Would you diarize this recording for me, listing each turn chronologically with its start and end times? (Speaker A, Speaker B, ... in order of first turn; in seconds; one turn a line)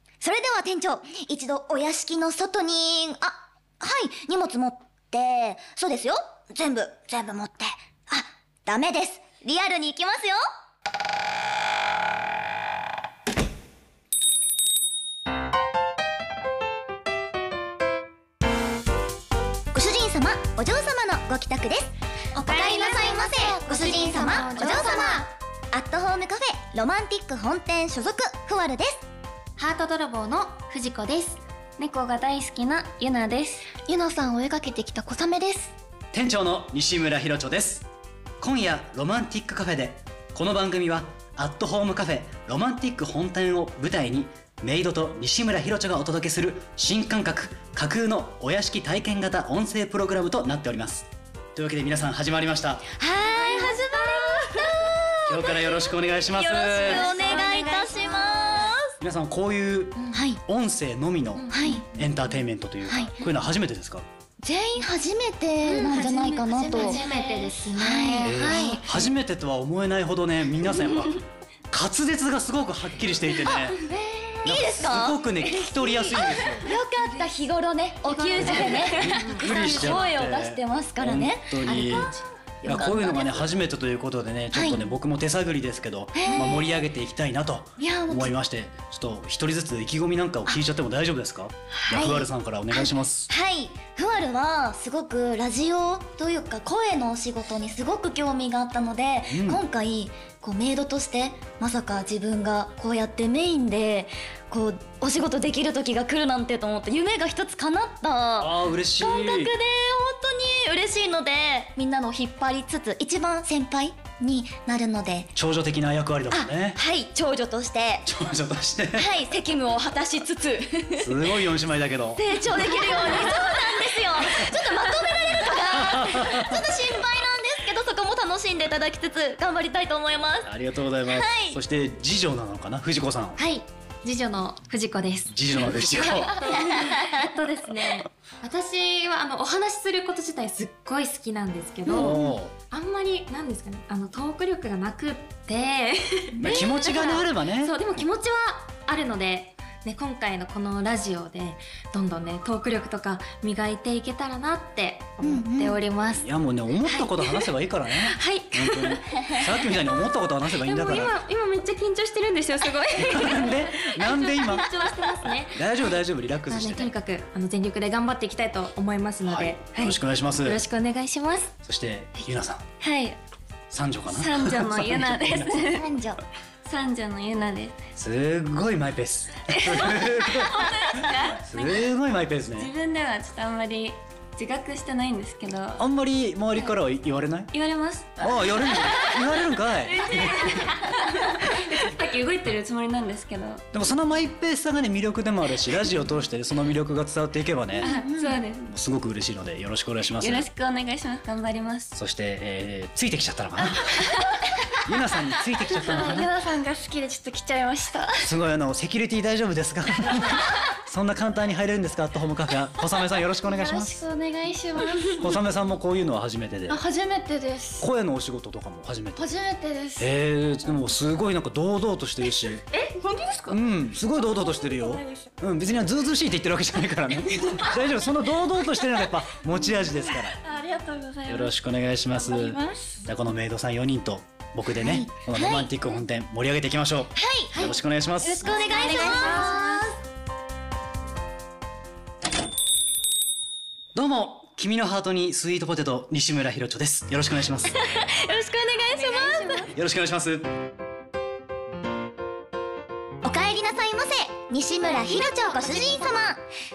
Speaker A: 0.2-10.4
Speaker A: 19.7-21.9
Speaker B: 22.4-25.3
Speaker A: 22.4-29.0
Speaker C: 22.6-25.2
Speaker B: 29.6-31.4
Speaker D: 31.8-33.7
Speaker C: 33.8-35.7
Speaker E: 36.1-37.9
Speaker E: 38.4-52.9
Speaker A: 53.0-55.6
Speaker B: 53.3-54.4
Speaker E: 55.2-57.1
Speaker A: 56.3-58.9
Speaker B: 56.8-58.7
Speaker D: 57.1-57.7
Speaker E: 59.0-64.0
Speaker A: 60.1-60.4
Speaker B: 61.4-61.8
Speaker A: 61.5-61.8
Speaker C: 61.5-61.8
Speaker A: 64.4-67.0
Speaker B: 65.6-69.0
Speaker C: 66.5-67.5
Speaker A: 67.8-68.8
Speaker E: 68.2-73.8
Speaker A: 73.5-75.2
Speaker E: 74.4-76.7
Speaker A: 76.5-82.0
Speaker B: 78.3-80.0
Speaker D: 78.4-79.6
Speaker E: 78.9-82.1
Speaker B: 81.7-82.2
Speaker A: 82.6-83.5
Speaker E: 82.6-93.3
Speaker A: 84.5-84.8
Speaker A: 86.1-86.7
Speaker A: 87.8-88.3
Speaker A: 91.9-115.3
Speaker E: 99.3-99.6
Speaker E: 108.4-109.5
Speaker E: 115.3-116.8
Speaker A: 116.3-118.1
Speaker E: 118.0-119.1
Speaker A: 118.9-121.3
Speaker E: 121.0-123.4
Speaker A: 122.2-130.5
Speaker E: 125.7-126.7
Speaker E: 130.4-133.4
Speaker A: 131.1-131.6
Speaker B: 133.4-156.3
Speaker E: 135.3-136.5
Speaker A: 136.4-137.3
Speaker E: 141.8-142.5
Speaker A: 141.9-142.2
Speaker E: 146.4-148.0
Speaker A: 155.2-155.8
Speaker E: 156.1-161.2
Speaker B: 156.8-159.4
Speaker D: 160.7-163.5
Speaker B: 160.9-165.8
Speaker E: 163.0-164.7
Speaker E: 165.5-166.9
Speaker B: 166.5-171.5
Speaker E: 169.2-170.6
Speaker E: 171.6-172.6
Speaker D: 172.8-173.2
Speaker E: 173.7-175.7
Speaker D: 174.1-175.9
Speaker A: 175.7-176.2
Speaker D: 176.6-177.8
Speaker E: 177.9-182.7
Speaker D: 179.5-181.9
Speaker D: 182.6-185.8
Speaker E: 185.8-187.5
Speaker D: 187.5-193.6
Speaker E: 188.2-190.7
Speaker E: 193.7-198.0
Speaker D: 197.8-198.7
Speaker E: 198.6-200.5
Speaker D: 200.2-201.9
Speaker E: 201.9-204.1
Speaker D: 203.8-204.5
Speaker E: 204.8-206.3
Speaker D: 205.7-208.3
Speaker E: 208.2-214.0
Speaker D: 213.4-215.3
Speaker E: 215.1-216.8
Speaker D: 216.7-217.7
Speaker C: 217.0-217.8
Speaker E: 217.8-219.3
Speaker C: 219.4-220.0
Speaker E: 220.0-222.6
Speaker E: 223.5-230.4
Speaker D: 230.5-231.5
Speaker E: 231.3-238.6
Speaker A: 234.8-235.7
Speaker A: 237.2-237.7
Speaker A: 238.2-239.8
Speaker D: 238.4-239.9
Speaker B: 238.4-239.8
Speaker E: 243.9-247.8
Speaker A: 247.7-249.7
Speaker D: 248.9-249.7
Speaker E: 249.7-250.6
Speaker A: 253.2-256.4
Speaker B: 254.8-256.3